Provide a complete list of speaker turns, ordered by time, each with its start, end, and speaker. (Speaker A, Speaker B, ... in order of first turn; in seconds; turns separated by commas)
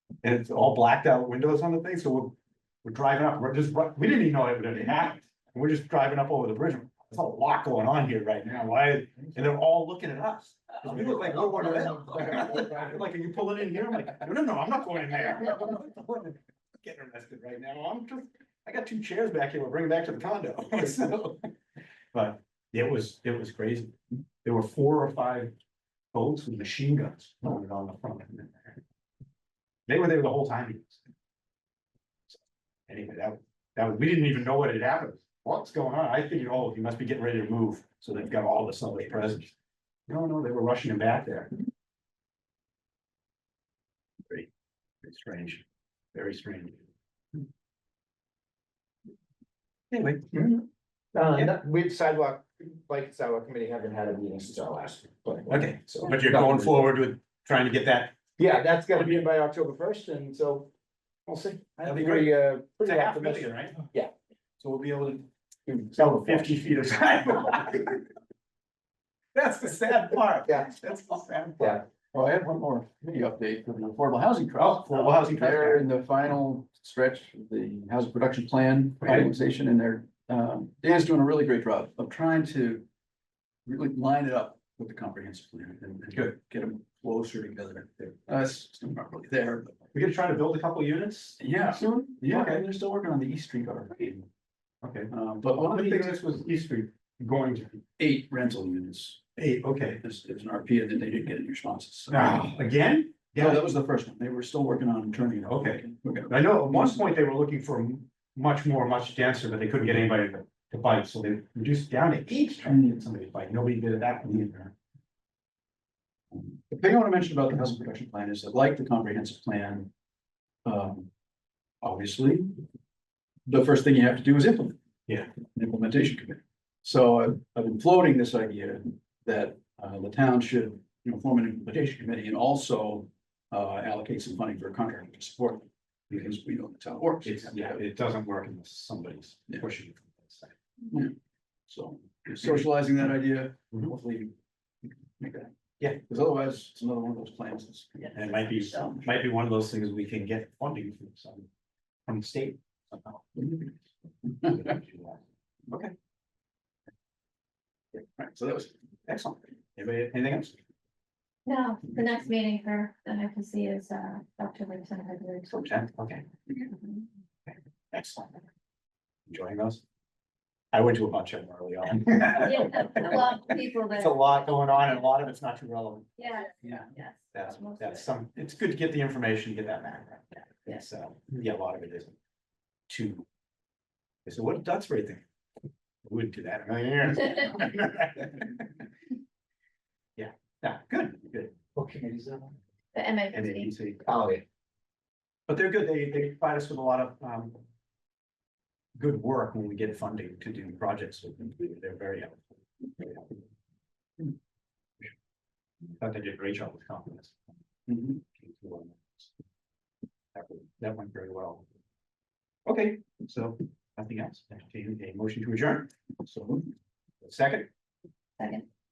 Speaker A: 0.2-21.5, Speaker B: 11.3-12.8, Speaker A: 22.1-25.5, Speaker A: 26.1-28.8, Speaker A: 29.9-31.0, Speaker A: 32.3-39.5, Speaker A: 40.1-41.5, Speaker A: 45.0-46.9, Speaker A: 49.9-50.5, Speaker B: 51.1-56.8, Speaker A: 55.5-58.1, Speaker B: 58.4-60.7, Speaker B: 61.3-64.1, Speaker A: 61.8-63.9, Speaker A: 64.6-65.2, Speaker B: 65.7-66.6, Speaker A: 66.0-68.0, Speaker A: 69.3-71.8, Speaker B: 71.6-71.8, Speaker C: 72.1-82.8, Speaker A: 74.6-75.8, Speaker A: 79.0-79.3, Speaker C: 83.7-89.9, Speaker A: 89.9-92.6, Speaker C: 91.4-94.3, Speaker A: 94.8-97.8, Speaker C: 95.1-96.2, Speaker C: 98.0-99.2, Speaker A: 99.4-100.0, Speaker C: 100.0-102.5, Speaker A: 102.1-103.7, Speaker C: 103.4-107.0, Speaker A: 105.4-114.7, Speaker C: 112.7-113.0, Speaker C: 116.3-119.9, Speaker C: 120.6-121.1, Speaker C: 121.8-122.6, Speaker C: 123.5-124.8, Speaker C: 125.3-137.8, Speaker A: 137.2-140.5, Speaker C: 141.7-149.0, Speaker A: 148.1-151.5, Speaker A: 152.1-153.7, Speaker A: 154.4-155.9, Speaker C: 157.9-158.7, Speaker A: 159.1-160.6, Speaker D: 161.4-165.5, Speaker A: 165.5-166.3, Speaker D: 166.5-167.1, Speaker A: 167.4-168.4, Speaker A: 169.3-169.8, Speaker A: 170.7-176.2, Speaker D: 172.4-174.5, Speaker D: 176.2-178.0, Speaker A: 177.3-182.2, Speaker A: 182.9-183.2, Speaker A: 184.2-185.2, Speaker A: 186.0-188.9, Speaker A: 190.2-191.6, Speaker B: 191.7-192.6, Speaker D: 192.9-193.7, Speaker A: 193.3-194.1, Speaker B: 194.0-194.4, Speaker A: 195.5-197.6, Speaker A: 198.9-203.4, Speaker A: 206.0-207.4, Speaker C: 207.9-208.2, Speaker A: 208.2-209.3, Speaker A: 210.3-211.6, Speaker A: 212.6-215.9, Speaker C: 216.2-216.7, Speaker A: 217.2-217.7, Speaker D: 218.4-218.7